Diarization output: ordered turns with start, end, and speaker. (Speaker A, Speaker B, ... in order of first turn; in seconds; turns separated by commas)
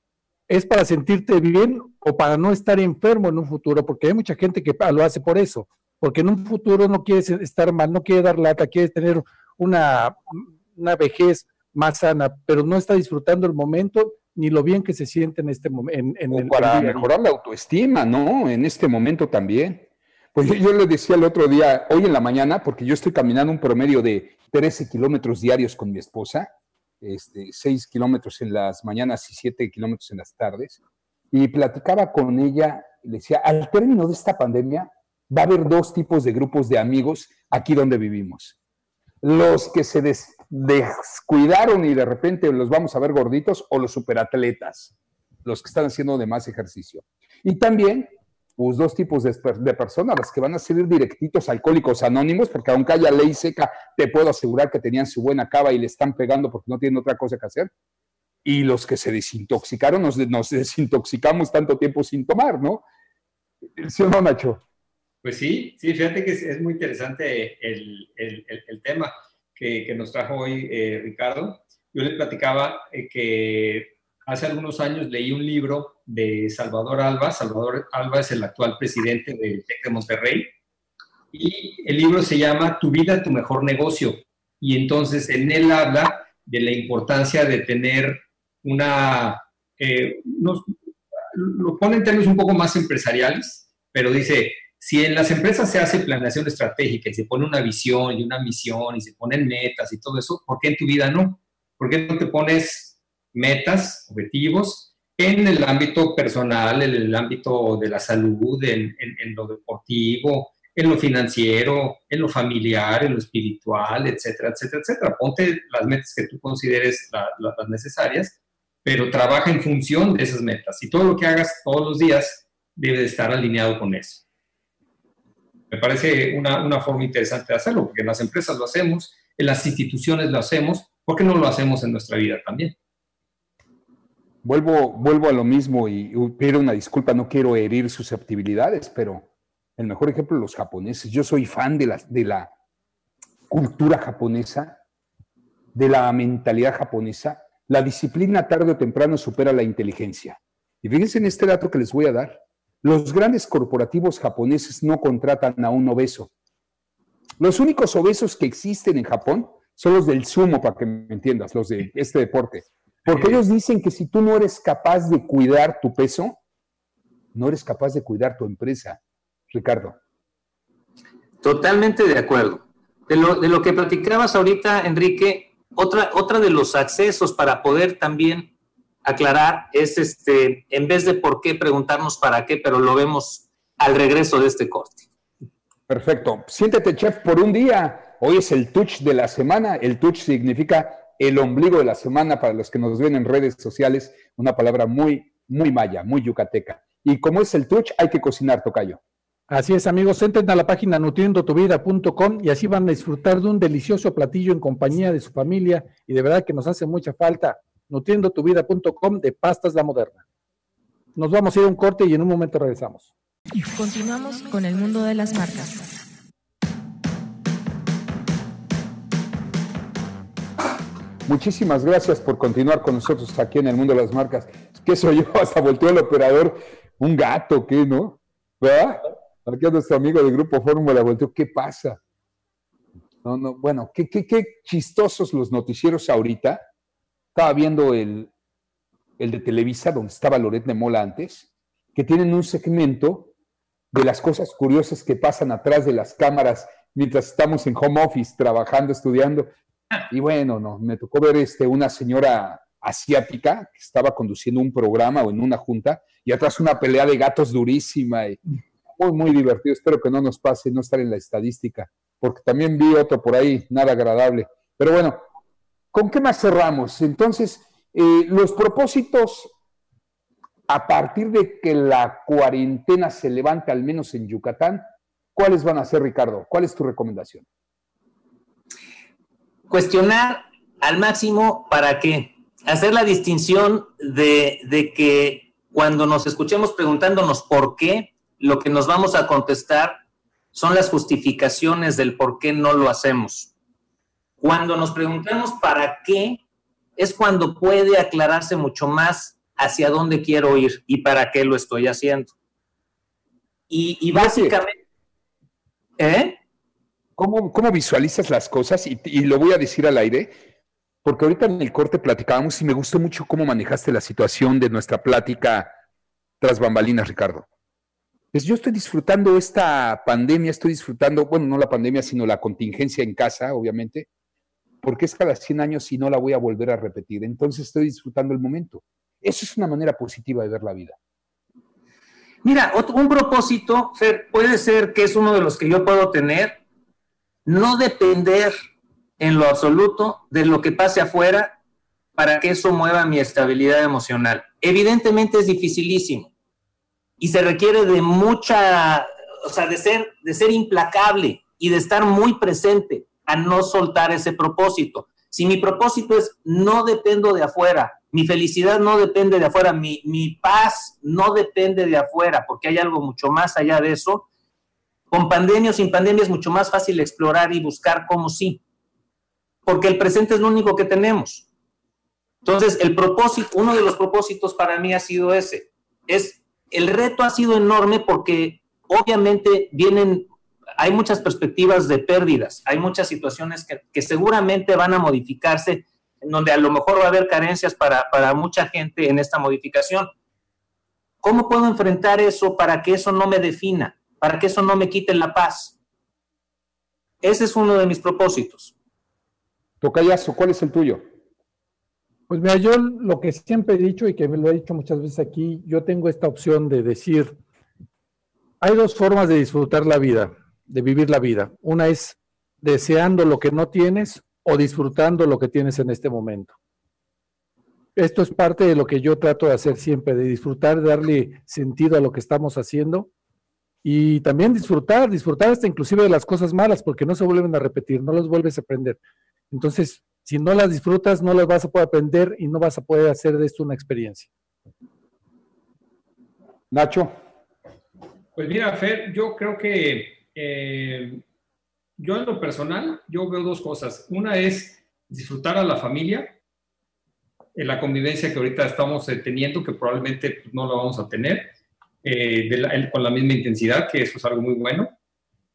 Speaker A: 0.5-17.1, Speaker B: 16.3-30.8, Speaker B: 31.3-38.6, Speaker B: 39.2-57.7, Speaker B: 58.5-62.9, Speaker B: 63.8-64.6, Speaker C: 65.2-80.5, Speaker C: 81.3-90.7, Speaker C: 91.3-124.2, Speaker C: 125.7-132.8, Speaker B: 134.4-142.5, Speaker B: 143.5-144.8, Speaker B: 145.7-156.3, Speaker B: 157.4-166.4, Speaker B: 167.3-169.0, Speaker B: 169.5-170.0, Speaker D: 171.4-178.5, Speaker D: 179.1-185.1, Speaker B: 185.9-199.0, Speaker A: 199.5-210.2, Speaker A: 211.2-213.1, Speaker E: 213.7-215.9, Speaker B: 221.3-232.0, Speaker B: 233.2-236.7, Speaker B: 237.3-238.3, Speaker B: 239.2-243.3, Speaker B: 243.9-249.5, Speaker B: 250.1-265.2, Speaker B: 265.9-269.5, Speaker B: 270.7-277.4, Speaker D: 279.7-290.0, Speaker D: 290.5-293.5, Speaker D: 294.4-296.4, Speaker D: 297.0-302.3, Speaker D: 303.7-304.8, Speaker B: 304.1-304.6, Speaker D: 306.0-306.4, Speaker B: 307.2-310.3, Speaker B: 311.0-315.7, Speaker B: 316.4-317.5, Speaker B: 318.3-324.1, Speaker B: 324.8-331.0, Speaker D: 332.4-336.6, Speaker D: 337.5-338.5, Speaker D: 339.2-341.6, Speaker D: 342.2-346.3, Speaker D: 347.2-364.3, Speaker D: 365.1-368.6, Speaker D: 369.7-371.5, Speaker D: 372.4-380.3, Speaker D: 380.8-390.1, Speaker D: 391.2-395.8, Speaker D: 397.2-398.7, Speaker B: 399.8-401.0, Speaker A: 402.3-407.4, Speaker A: 408.6-416.6, Speaker A: 418.0-423.1, Speaker A: 423.8-429.0, Speaker A: 429.5-434.3, Speaker B: 436.7-437.1, Speaker C: 438.4-441.2, Speaker C: 442.0-446.4, Speaker C: 447.6-451.5, Speaker C: 452.0-454.9